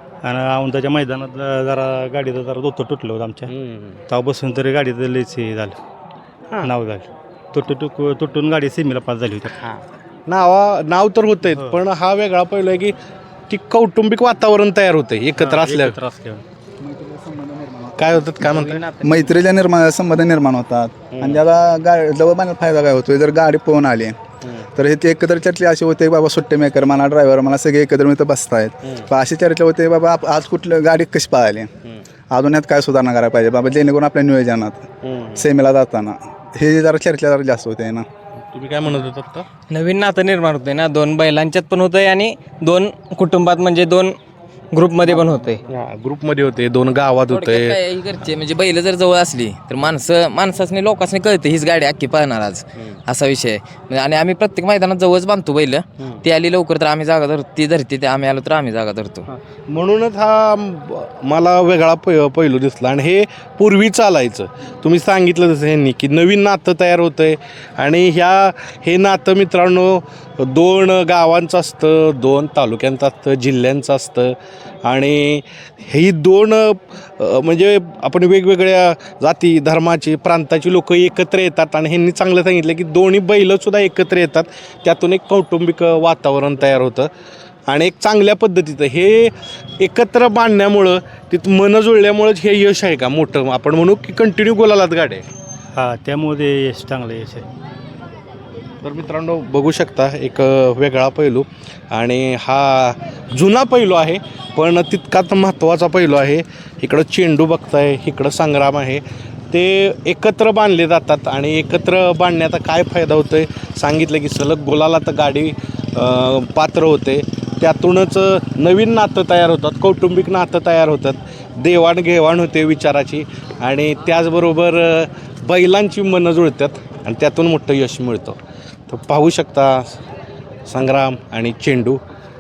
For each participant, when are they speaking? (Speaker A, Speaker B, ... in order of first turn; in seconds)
Speaker A: 0.2-3.5, 4.1-5.8, 6.7-9.6, 15.4-16.4, 95.7-97.5
Speaker B: 3.5-4.0, 9.5-12.9, 13.5-16.0, 18.0-18.8, 21.1-21.4, 24.4-24.7, 28.8-29.1, 35.0-35.5, 38.4-39.5, 45.1-47.8, 56.0-56.2, 59.3-87.1, 87.7-95.2, 98.8-130.0, 130.7-132.0
Speaker C: 16.8-24.1, 24.8-31.7, 32.3-38.0
Speaker D: 18.4-19.2, 39.7-44.2, 44.7-45.6
Speaker E: 47.3-59.2